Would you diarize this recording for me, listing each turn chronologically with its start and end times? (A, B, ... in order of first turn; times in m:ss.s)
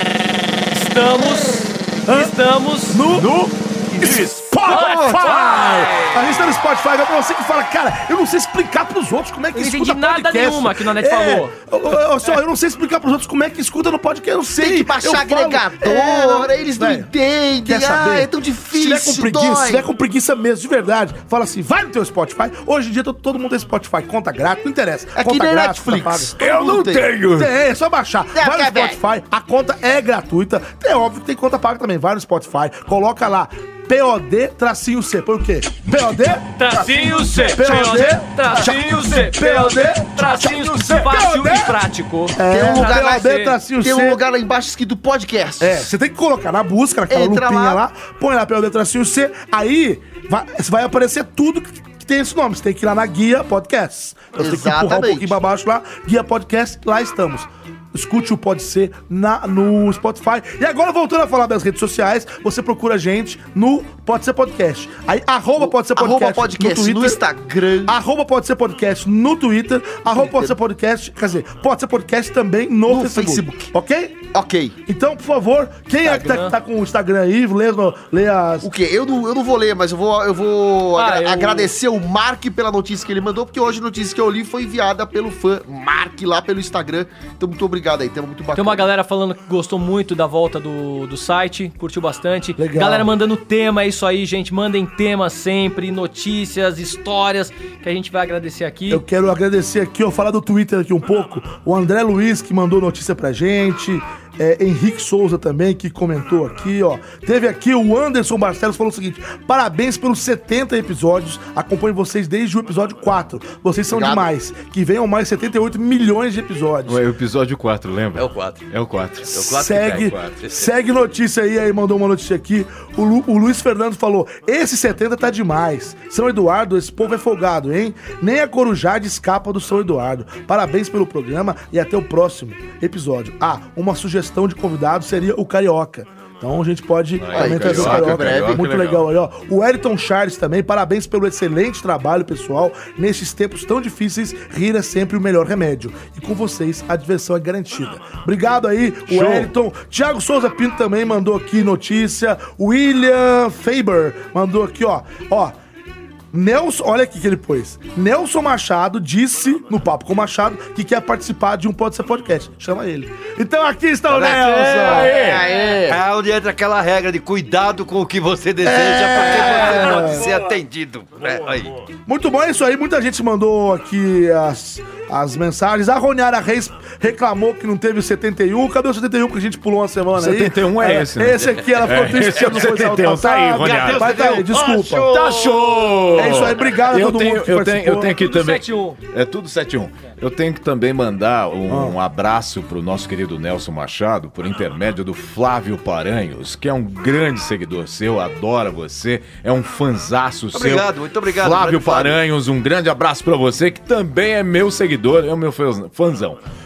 0:00.7-0:03.0 A
0:02.0-0:02.3 B
0:02.9-0:03.4 B
0:03.1-0:04.4 C
0:04.0-0:17.1 B
0:04.6-0:06.6 A
0:04.6-0:05.5 D
0:09.5-0:11.5 A
0:14.6-0:19.8 D
0:17.6-0:26.5 B
0:25.2-0:27.1 D
0:26.4-0:27.5 C
0:27.2-0:41.8 B
0:28.3-0:29.0 D
0:36.6-0:43.5 A
0:40.7-0:41.0 C
0:42.3-0:44.2 B
0:42.5-0:45.9 D
0:45.6-1:07.2 B
0:47.1-0:47.8 D
0:54.4-0:55.4 D
1:05.6-1:08.0 D
1:07.8-1:14.2 B
1:12.9-1:13.7 D
1:14.3-1:14.8 D
1:14.8-1:18.7 B
1:16.0-1:16.6 A
1:18.6-1:28.9 D
1:21.0-1:21.7 A
1:28.5-1:39.0 A
1:32.6-1:33.1 B
1:38.9-1:57.0 B
1:53.9-1:54.3 D
1:56.8-1:59.3 C
1:58.1-1:58.6 E
1:59.3-2:35.5 B
1:59.3-2:00.7 E
2:17.2-2:19.1 C
2:17.3-2:18.7 D
2:29.1-2:29.5 C
2:36.3-2:45.1 B
2:44.1-2:51.8 E
2:44.6-2:45.6 C
2:45.1-2:46.0 D
2:48.6-2:50.3 B
2:52.1-3:05.1 B
3:00.1-3:04.2 C
3:03.6-3:06.5 E
3:05.1-3:26.4 C
3:06.2-3:08.1 B
3:08.2-3:09.0 A
3:11.7-3:12.0 B
3:20.5-3:22.2 E